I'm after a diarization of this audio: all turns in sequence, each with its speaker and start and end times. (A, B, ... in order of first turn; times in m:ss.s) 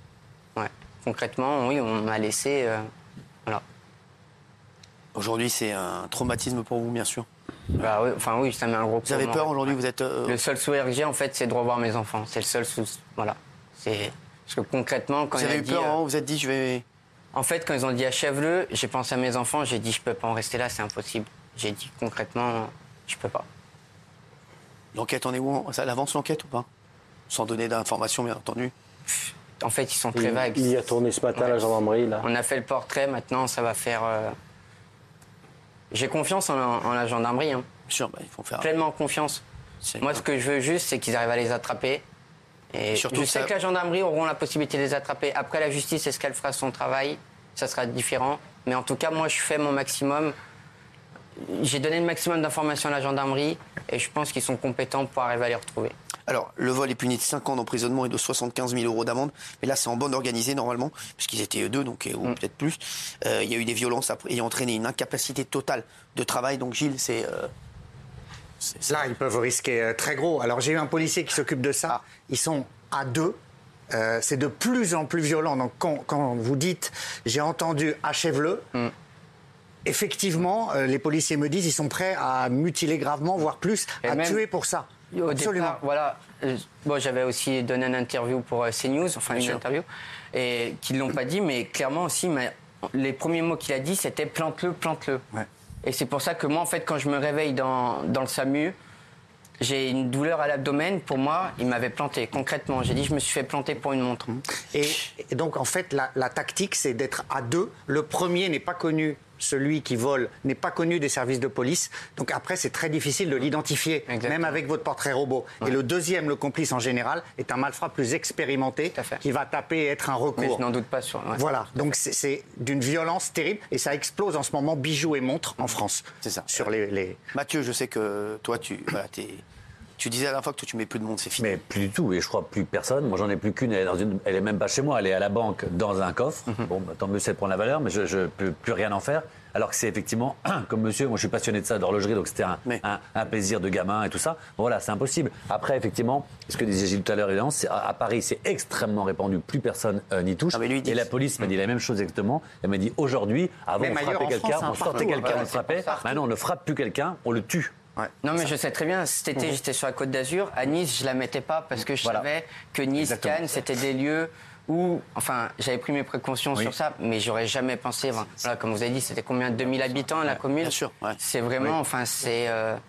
0:00.6-0:02.9 A
0:05.2-0:07.3 B
0:07.8-0:09.7 A
0:09.0-0:10.4 B
0:10.3-0:16.0 A
0:15.4-0:16.8 B
0:17.3-0:23.5 A
0:24.9-0:26.7 B
0:27.3-0:28.7 B
0:29.1-0:30.7 A
0:30.2-0:32.2 C
0:31.3-0:34.3 A
0:35.9-0:37.7 A
0:37.9-0:38.7 B
0:38.6-0:39.4 A
0:39.8-0:40.2 B
0:40.0-0:42.0 A
0:42.7-0:50.4 A
0:42.9-0:43.5 B
0:51.4-0:55.9 A
0:56.3-1:07.5 B
1:08.8-1:13.4 D
1:13.9-1:18.7 D
1:19.8-1:25.8 D
1:24.0-1:24.5 A
1:25.1-1:35.2 A
1:29.3-1:29.6 B
1:35.8-1:38.8 A
1:39.6-1:44.4 A
1:44.6-2:00.6 D
1:54.1-1:54.6 A
1:59.0-1:59.2 A
2:00.4-2:01.9 A
2:01.4-2:07.2 D
2:06.2-2:06.7 B
2:07.3-2:09.4 B
2:10.0-2:11.6 B
2:11.4-2:37.8 E
2:30.5-2:31.1 B
2:33.8-2:36.2 D
2:38.2-2:52.8 A
2:50.6-2:51.2 B